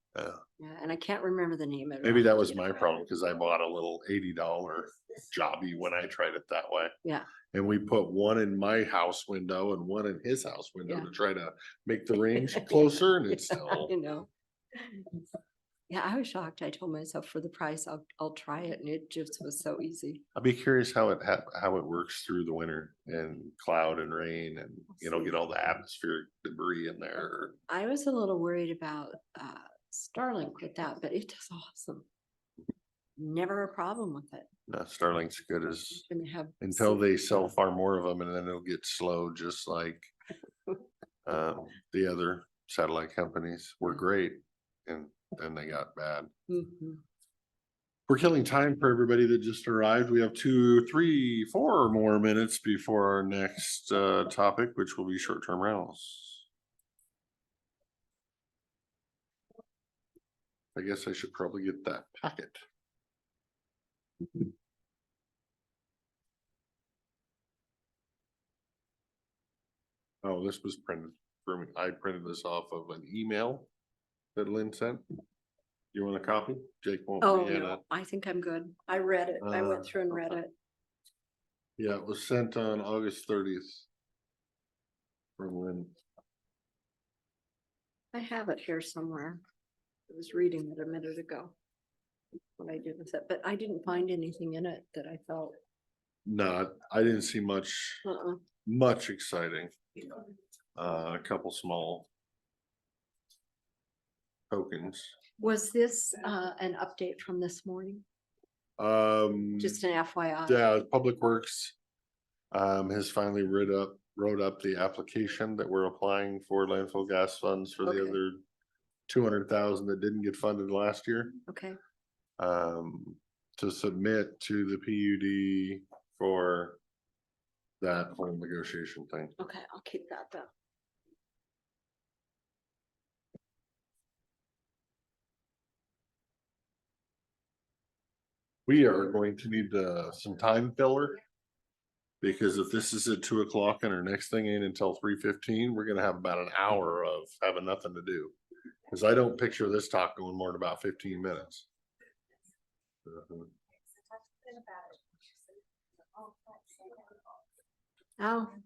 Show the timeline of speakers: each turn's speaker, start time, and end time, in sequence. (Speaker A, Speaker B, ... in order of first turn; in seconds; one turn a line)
Speaker A: 0.1-0.4
Speaker B: 0.6-2.9
Speaker A: 2.0-6.9
Speaker A: 7.5-13.9
Speaker B: 12.3-15.2
Speaker B: 15.9-20.2
Speaker A: 20.4-27.6
Speaker B: 25.0-25.4
Speaker B: 27.7-32.1
Speaker B: 33.2-34.5
Speaker A: 34.7-36.0
Speaker B: 35.9-37.0
Speaker A: 36.6-40.1
Speaker A: 41.3-46.3
Speaker B: 46.5-47.0
Speaker A: 48.1-56.5
Speaker A: 60.8-62.6
Speaker A: 70.2-73.7
Speaker A: 74.3-75.0
Speaker A: 75.9-77.8
Speaker B: 77.2-80.5
Speaker A: 79.4-80.4
Speaker A: 81.8-83.9
Speaker A: 85.4-86.0
Speaker B: 88.1-89.4
Speaker B: 90.1-91.5
Speaker B: 92.6-95.5
Speaker A: 96.3-98.0
Speaker B: 98.0-98.4
Speaker A: 98.7-99.7
Speaker A: 100.8-102.1
Speaker A: 104.5-105.1
Speaker B: 105.4-108.0
Speaker A: 108.8-109.8
Speaker B: 109.6-110.6
Speaker A: 110.5-111.8
Speaker A: 112.5-118.4
Speaker B: 117.8-118.2
Speaker A: 119.1-121.3
Speaker B: 121.5-121.8
Speaker A: 122.4-126.8
Speaker A: 127.8-129.3
Speaker B: 129.4-130.5
Speaker A: 138.7-141.2
Speaker A: 142.2-148.3
Speaker A: 148.9-151.7
Speaker A: 153.1-153.5
Speaker B: 158.2-158.6